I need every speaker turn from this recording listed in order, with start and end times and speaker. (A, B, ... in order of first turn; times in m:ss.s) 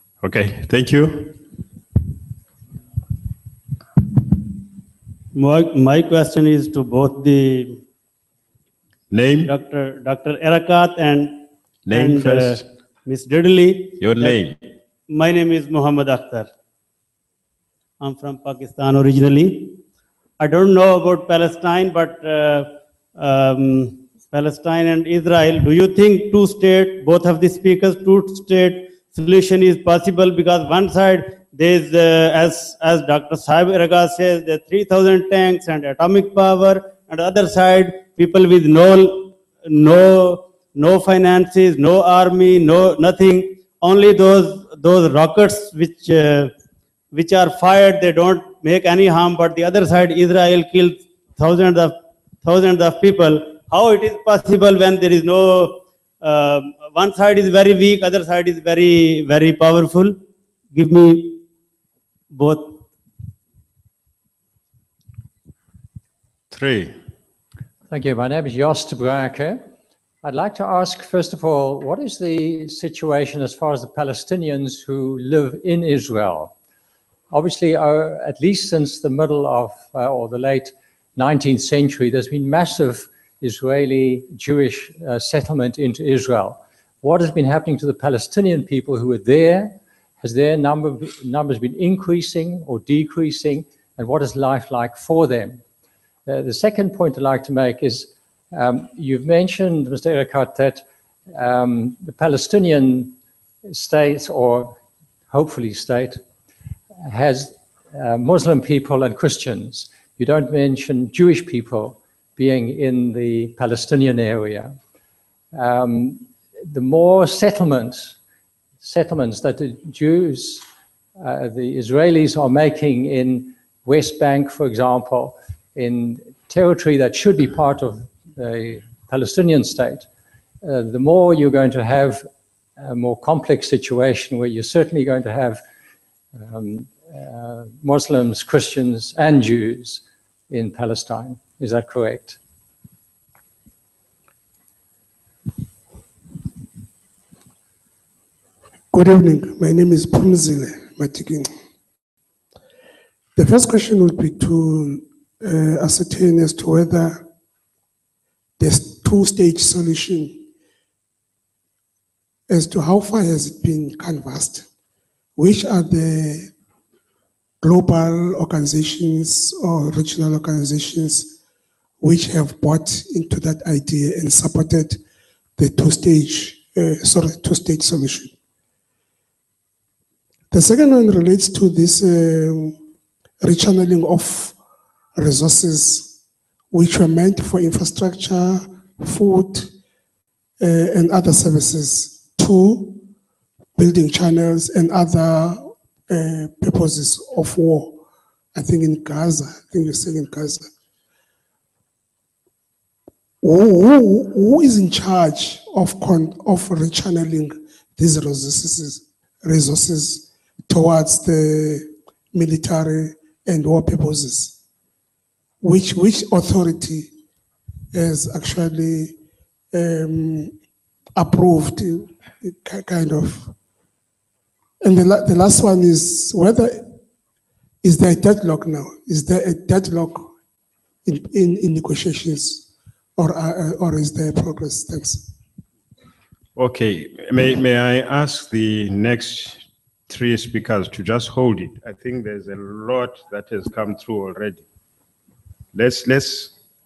0:00.2-0:01.4 A
0:05.3-0:07.8 B
0:09.1-0:09.5 A
0:09.4-0:14.4 B
0:11.9-0:12.6 A
0:14.0-0:14.6 A
0:15.1-0:16.5 B
0:18.0-0:19.8 B
0:20.4-0:46.5 B
0:47.1-1:00.2 B
1:00.7-1:01.4 B
1:02.3-1:02.8 B
1:06.5-1:06.9 A
1:07.9-1:09.6 C
1:10.2-1:16.5 C
1:17.3-1:35.6 C
1:36.2-1:43.2 C
1:43.7-1:46.2 C
1:47.0-1:54.8 C
1:55.5-1:58.2 C
1:58.8-2:00.6 C
2:01.2-2:10.1 C
2:10.6-2:15.6 C
2:16.4-2:22.4 C
2:28.9-2:31.5 D
2:33.4-2:37.3 D
2:38.6-2:40.4 D
2:42.5-2:44.7 D
2:45.4-2:46.5 D
2:47.6-2:51.4 D
2:52.0-2:55.0 D
2:55.6-2:58.3 D
3:00.5-3:02.8 D
3:03.4-3:04.6 D
3:05.2-3:06.1 D
3:06.7-3:09.7 D
3:10.6-3:13.0 D
3:13.8-3:18.0 D
3:18.5-3:20.7 D
3:23.4-3:34.5 D
3:35.6-3:37.1 D
3:37.9-3:39.2 D
3:39.7-3:40.5 D
3:41.2-3:43.5 D
3:44.8-3:46.9 D
3:47.8-3:50.3 D
3:51.0-3:55.3 D
3:56.6-4:04.6 A
4:05.7-4:06.5 A